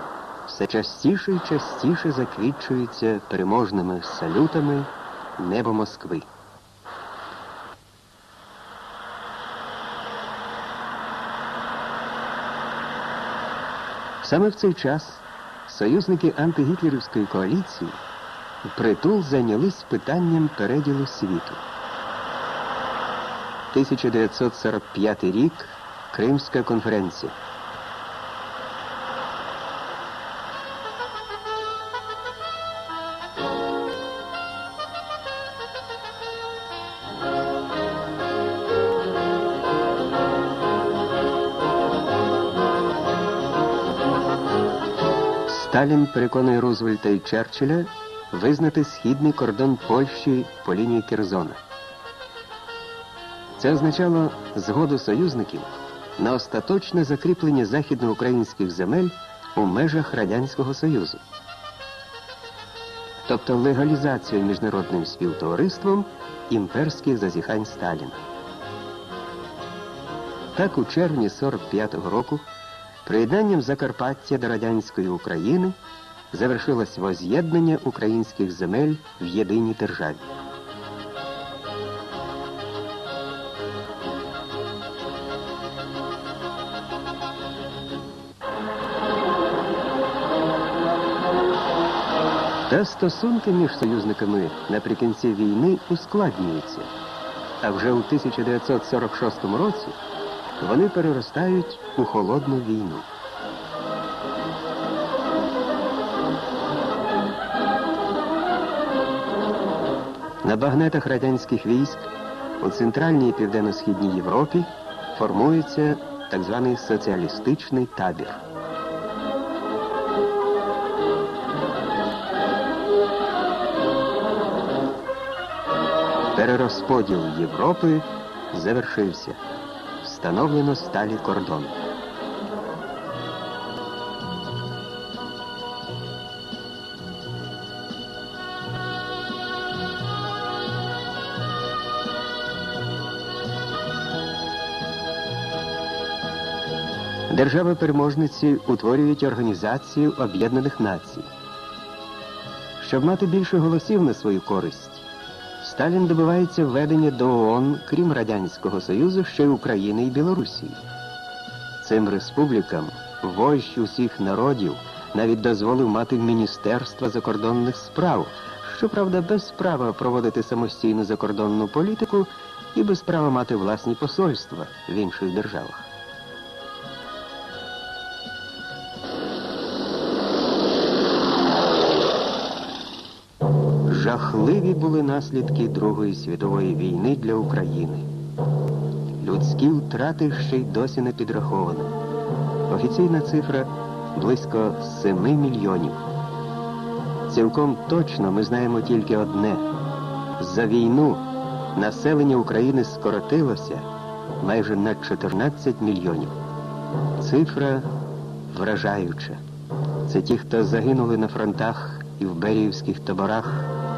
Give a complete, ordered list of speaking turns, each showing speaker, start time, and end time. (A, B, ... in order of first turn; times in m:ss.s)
0:00.4-0:06.3 A
0:14.2-0:18.0 A
0:18.6-0:21.6 A
0:23.7-0:27.4 A
0:45.4-0:51.6 A
0:53.6-1:01.2 A
1:03.2-1:08.2 A
1:10.5-1:12.5 A
1:13.0-1:15.8 A
1:16.3-1:20.3 A
1:32.7-1:36.9 A
1:37.6-1:40.0 A
1:40.6-1:43.1 A
1:50.4-1:52.1 A
1:52.6-1:58.4 A
2:06.3-2:09.4 A
2:10.0-2:11.8 A
2:27.3-2:31.3 A
2:32.8-2:35.0 A
2:35.6-2:40.8 A
2:41.8-2:55.9 A
3:03.8-3:08.1 A
3:09.2-3:11.9 A
3:12.7-3:16.0 A
3:17.3-3:19.7 A
3:20.4-3:23.9 A
3:24.4-3:26.4 A
3:27.2-3:27.9 A
3:28.5-3:29.4 A
3:30.0-3:33.7 A